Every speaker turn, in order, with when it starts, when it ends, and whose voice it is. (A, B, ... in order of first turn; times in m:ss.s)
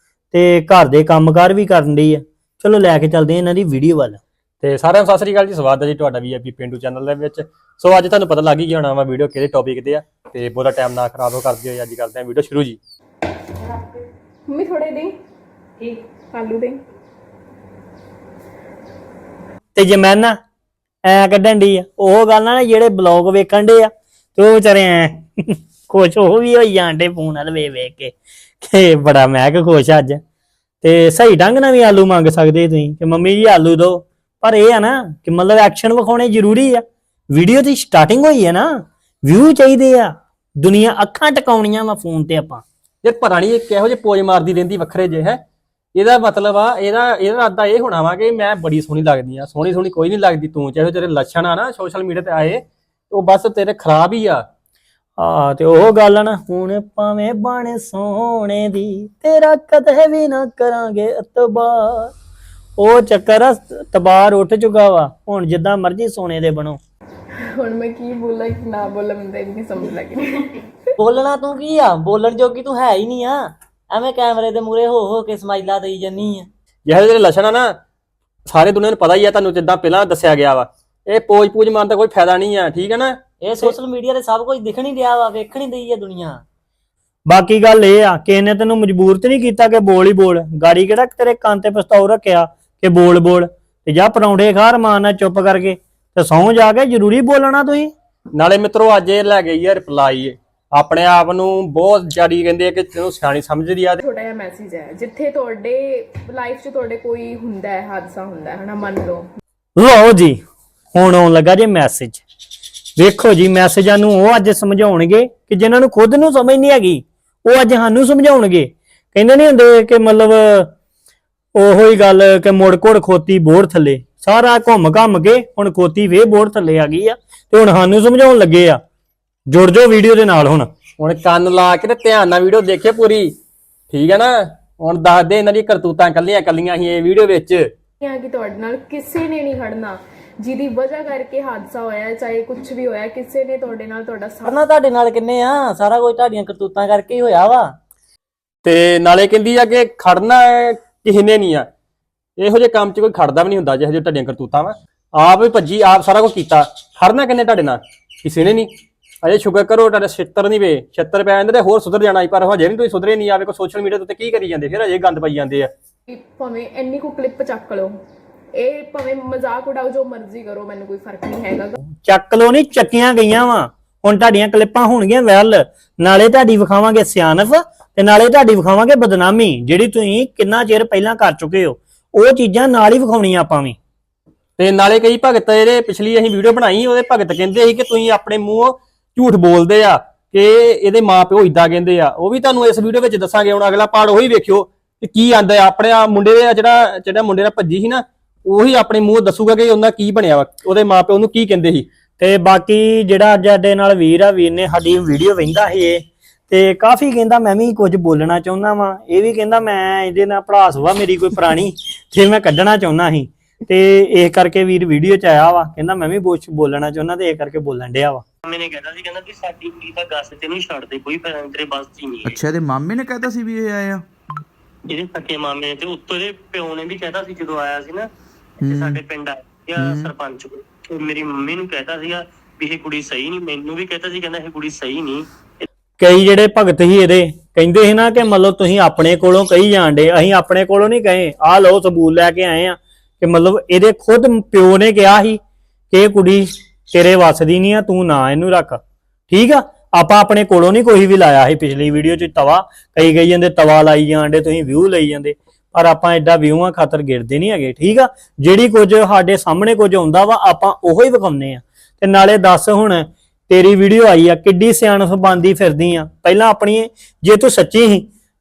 0:00.3-0:04.2 A
0:04.6-0:12.8 B
0:14.5-0:15.1 C
0:16.3-0:16.8 C
0:19.7-0:20.4 A
0:21.0-0:30.2 A
0:30.8-0:42.6 A
0:43.0-0:45.4 B
0:45.9-0:54.4 B
0:55.2-1:02.1 A
1:02.8-1:06.8 A
1:07.4-1:10.6 C
1:11.0-1:16.5 D
1:16.8-1:17.7 B
1:18.4-1:23.7 B
1:23.4-1:26.4 D
1:27.3-1:37.9 A
1:38.4-1:44.0 B
1:44.1-1:49.2 C
1:49.8-1:50.4 A
1:50.9-1:52.2 A
1:53.0-2:00.7 A
2:01.5-2:08.8 A
2:09.5-2:10.7 A
2:11.0-2:13.3 B
2:13.9-2:17.7 B
2:18.0-2:24.5 C
2:24.5-2:27.8 D
2:28.6-2:31.7 B
2:32.4-2:38.7 B
2:39.2-2:45.7 B
2:46.1-2:47.9 C
2:48.5-2:51.7 C
2:52.0-3:03.8 A
3:04.6-3:21.8 B
3:22.2-3:38.2 A
3:38.4-3:42.4 E
3:42.2-3:44.0 F
3:44.9-3:48.1 E
3:48.6-3:49.0 F
3:48.6-3:55.6 E
3:49.8-3:50.1 F
3:56.0-4:05.4 A
4:05.9-4:28.1 A